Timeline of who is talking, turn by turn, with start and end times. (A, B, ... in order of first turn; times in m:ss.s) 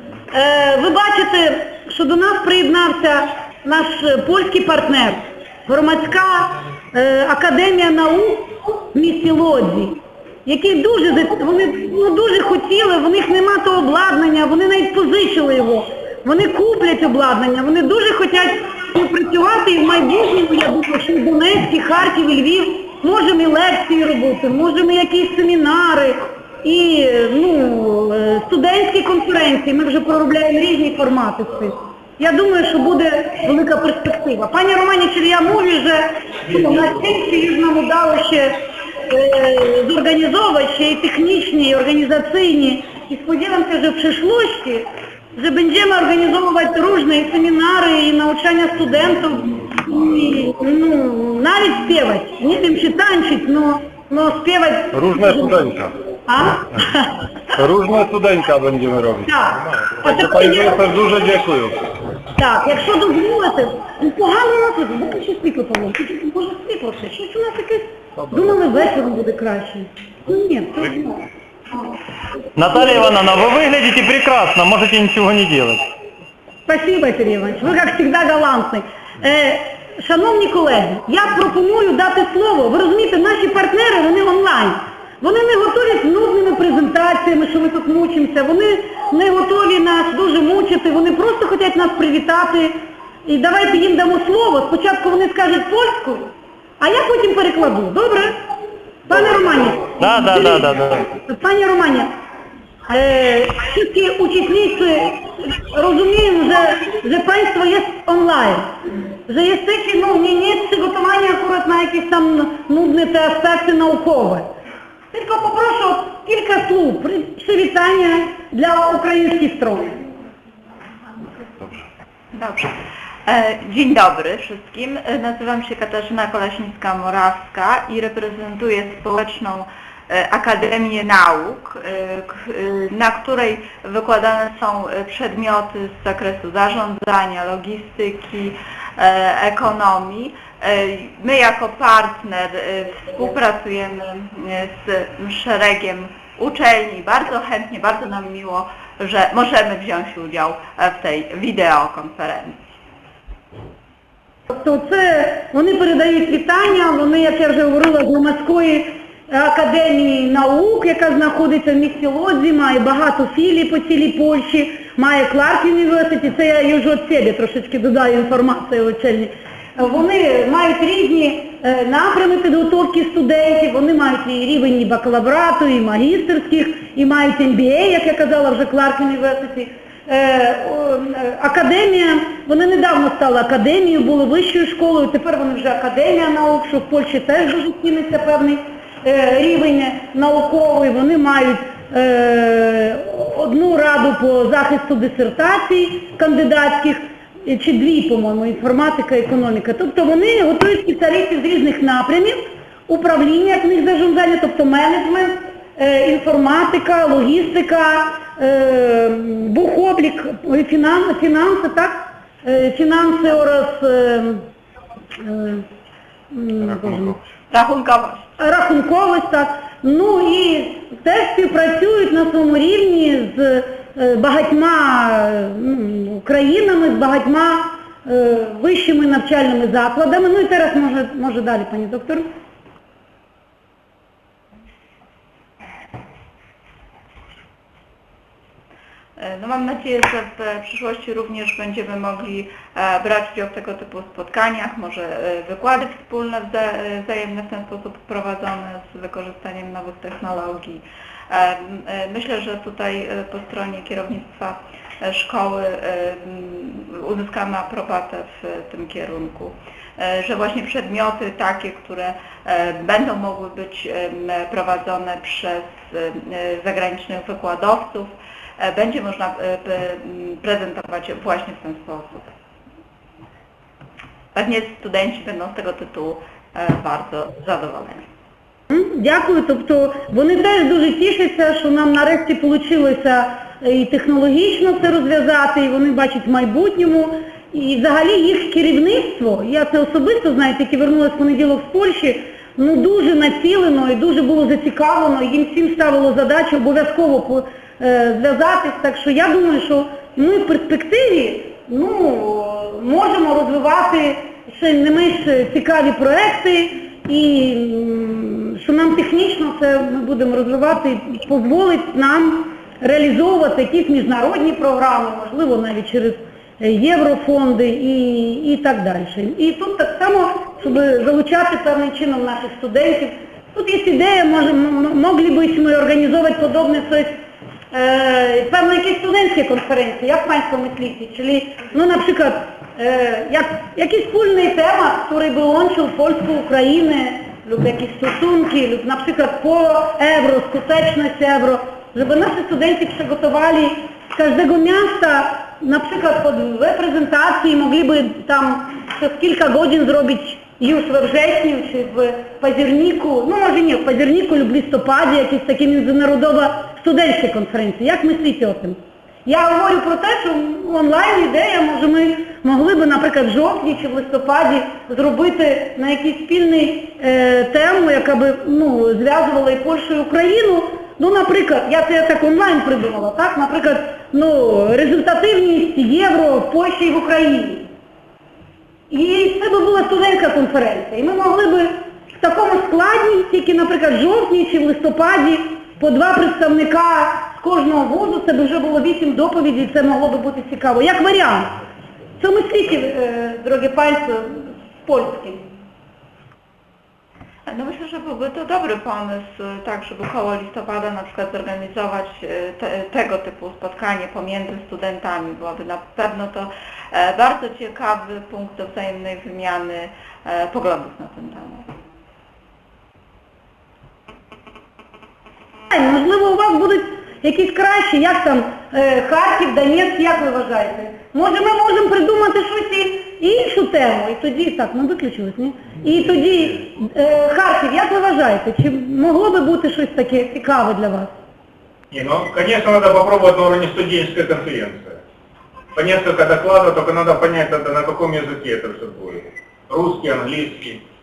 0:00.3-0:57.2 A
0:36.5-0:36.8 B
0:55.2-0:55.8 C
0:57.6-0:59.2 D
0:59.2-1:00.9 A
1:00.3-1:01.6 D
1:02.4-1:11.2 A
1:12.6-1:15.8 C
1:16.6-1:38.4 A
1:39.0-1:42.1 A
1:39.9-1:41.0 C
1:42.9-1:48.7 A
1:49.3-1:54.5 A
1:55.1-2:00.0 A
2:02.3-2:02.7 E
2:03.3-2:32.6 E
2:34.5-3:34.5 A
3:35.2-3:35.7 A
3:36.3-3:37.2 A
3:37.5-3:38.3 E
3:38.4-3:52.3 A
3:59.2-4:32.3 E
4:34.3-4:38.0 E
4:38.7-5:27.2 A
5:27.7-6:17.7 A
6:18.9-6:31.5 A
6:32.2-6:35.5 A
6:37.5-6:51.7 E
6:55.7-7:11.1 A
7:11.9-7:15.0 B
7:15.7-7:20.8 B